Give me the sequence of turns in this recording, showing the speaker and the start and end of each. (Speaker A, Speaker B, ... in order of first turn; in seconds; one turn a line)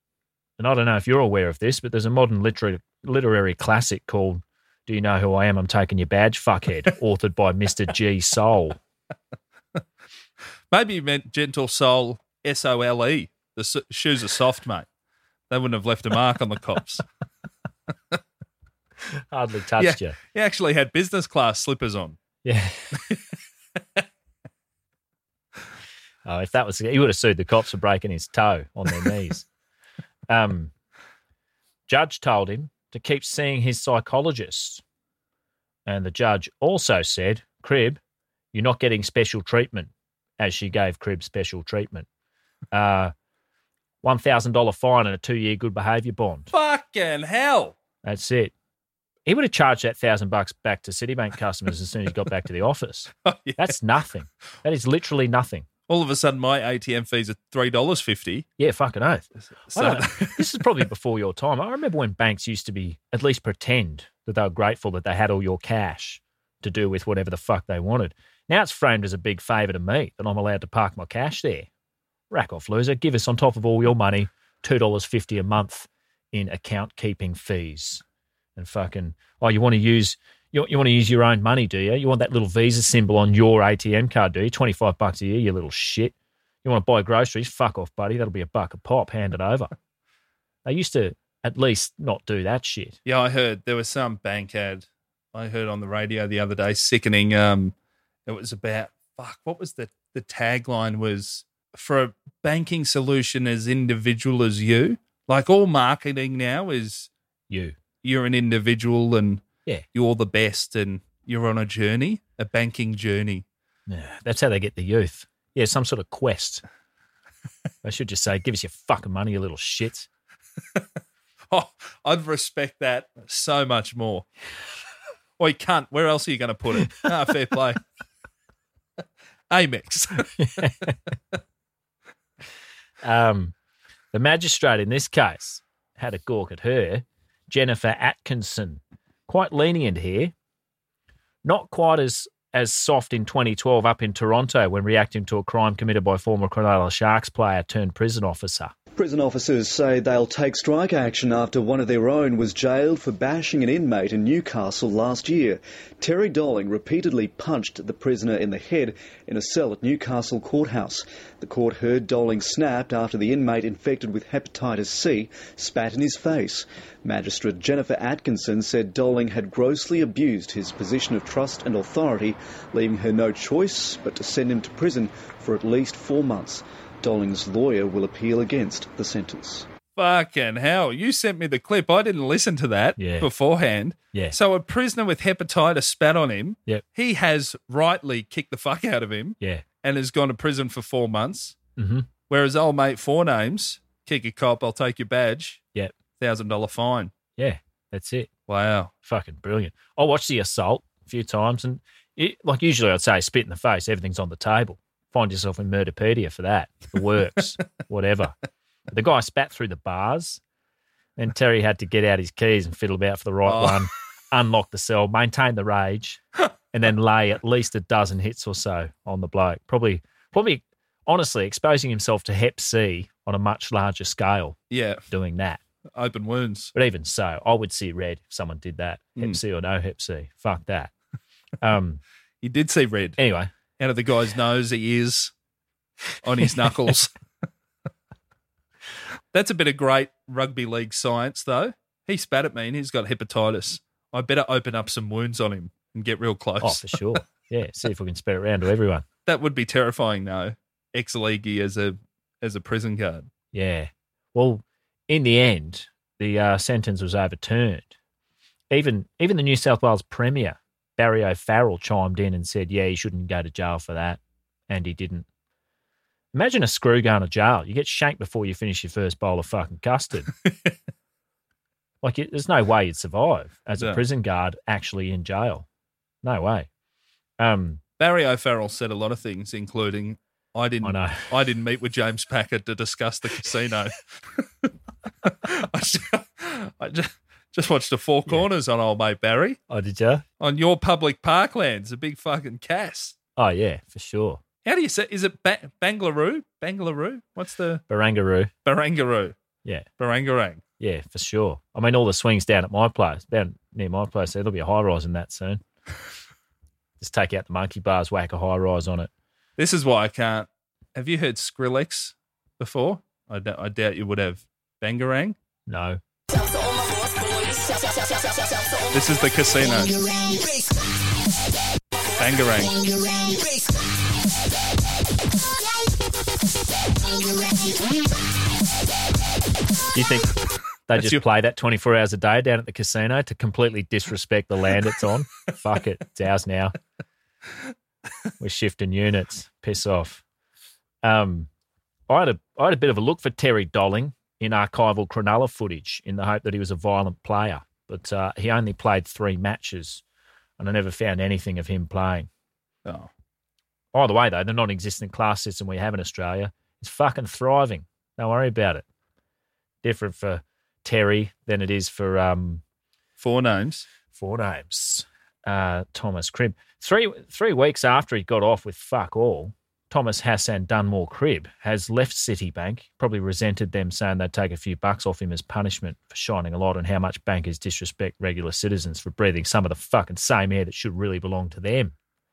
Speaker A: 0.6-8.8
Speaker B: 10.7-14.8
Speaker B: 15.5-17.0
Speaker A: 19.1-20.2
Speaker B: 19.8-22.2
Speaker A: 22.4-23.0
Speaker A: 26.2-29.4
Speaker A: 30.3-30.7
Speaker A: 31.9-34.8
Speaker A: 35.9-38.0
Speaker A: 38.5-42.1
Speaker A: 42.7-43.1
Speaker A: 44.0-46.5
Speaker B: 46.5-47.8
Speaker A: 48.0-48.5
Speaker A: 49.2-55.7
Speaker B: 53.2-53.7
Speaker B: 55.9-58.5
Speaker A: 58.6-71.7
Speaker B: 59.7-60.6
Speaker A: 72.3-78.0
Speaker A: 78.5-89.7
Speaker A: 90.6-93.0
Speaker B: 93.0-97.7
Speaker B: 98.3-107.1
Speaker A: 107.5-107.8
Speaker B: 108.0-109.4
Speaker B: 109.9-113.4
Speaker A: 113.9-116.6
Speaker A: 117.8-120.1
Speaker B: 121.5-124.2
Speaker B: 125.4-127.8
Speaker B: 129.5-130.3
Speaker A: 130.4-130.9
Speaker A: 133.0-133.5
Speaker A: 134.1-140.3
Speaker A: 141.4-148.7
Speaker C: 148.9-179.7
Speaker B: 179.9-191.6
Speaker A: 183.0-183.3
Speaker A: 191.8-192.1
Speaker B: 192.3-195.6
Speaker B: 196.2-197.1
Speaker A: 197.4-198.3
Speaker B: 198.5-198.9
Speaker A: 199.0-208.3
Speaker A: 208.9-210.4
Speaker A: 211.2-216.2
Speaker B: 213.4-213.8
Speaker A: 216.7-224.6
Speaker B: 224.7-225.0
Speaker A: 225.1-225.6
Speaker B: 225.9-226.7
Speaker A: 226.7-230.9
Speaker A: 231.6-232.0
Speaker B: 232.4-233.2
Speaker A: 233.2-233.5
Speaker B: 233.8-235.3
Speaker B: 236.2-237.1
Speaker B: 239.3-247.2
Speaker A: 246.6-249.0
Speaker B: 249.2-253.3
Speaker A: 253.5-257.9
Speaker A: 258.7-265.3
Speaker A: 266.3-270.3
Speaker B: 270.4-270.7
Speaker A: 272.0-275.7
Speaker A: 276.2-276.7
Speaker A: 277.4-277.8
Speaker B: 278.0-284.7
Speaker A: 280.8-281.3
Speaker B: 285.2-289.6
Speaker A: 289.7-290.2
Speaker B: 290.4-293.1
Speaker A: 293.4-294.4
Speaker B: 294.6-297.8
Speaker A: 297.9-298.5
Speaker B: 298.6-299.3
Speaker B: 300.0-300.6
Speaker A: 300.8-305.6
Speaker A: 307.0-309.1
Speaker B: 309.6-315.4
Speaker A: 315.7-316.0
Speaker B: 318.9-320.0
Speaker B: 322.1-322.8
Speaker A: 329.9-330.3
Speaker A: 330.9-336.7
Speaker B: 330.9-331.2
Speaker A: 338.4-340.2
Speaker A: 341.0-341.5
Speaker A: 342.1-350.0
Speaker A: 350.6-352.3
Speaker B: 352.8-353.1
Speaker A: 353.9-358.8
Speaker A: 359.8-362.6
Speaker B: 363.2-363.9
Speaker A: 364.1-381.9